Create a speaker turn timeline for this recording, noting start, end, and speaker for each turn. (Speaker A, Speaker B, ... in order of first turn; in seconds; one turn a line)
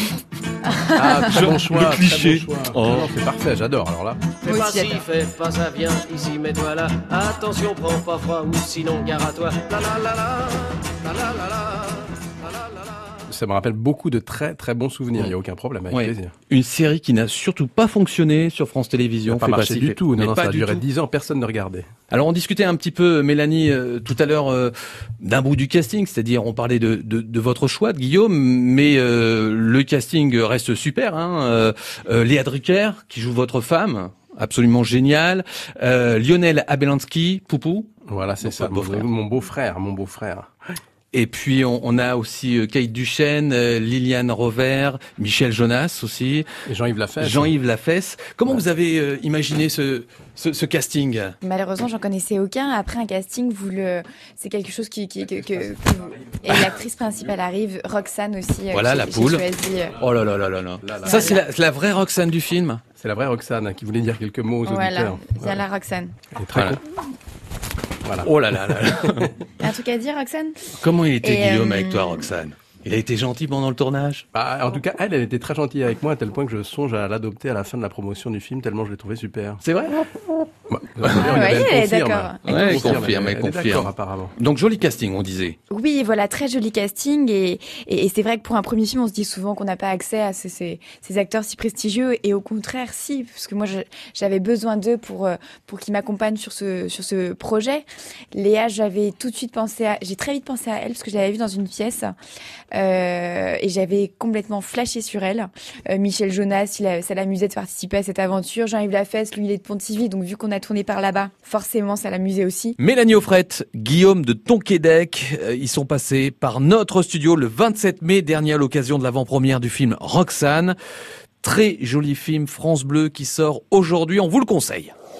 Speaker A: 0.9-4.2
Speaker B: 1.2-3.1
Speaker C: 4.4-5.0
Speaker D: 4.4-11.9
Speaker A: 13.3-16.3
Speaker B: 15.9-20.8
Speaker A: 19.3-21.9
Speaker B: 22.1-37.9
Speaker A: 38.0-40.5
Speaker B: 38.4-39.1
Speaker B: 41.1-46.5
Speaker A: 46.7-47.5
Speaker B: 47.2-51.3
Speaker C: 51.4-60.0
Speaker B: 58.7-59.4
Speaker B: 60.0-62.8
Speaker A: 60.8-61.4
Speaker C: 61.0-61.4
Speaker A: 63.0-65.6
Speaker C: 64.6-66.1
Speaker A: 66.3-66.8
Speaker B: 66.5-66.8
Speaker A: 68.0-68.9
Speaker B: 68.2-69.3
Speaker C: 69.6-70.7
Speaker B: 70.8-74.2
Speaker C: 71.2-72.2
Speaker A: 74.3-80.0
Speaker A: 80.7-84.3
Speaker C: 81.1-83.1
Speaker B: 82.5-85.5
Speaker C: 85.7-102.1
Speaker C: 102.7-112.8
Speaker B: 112.8-120.8
Speaker B: 121.4-124.9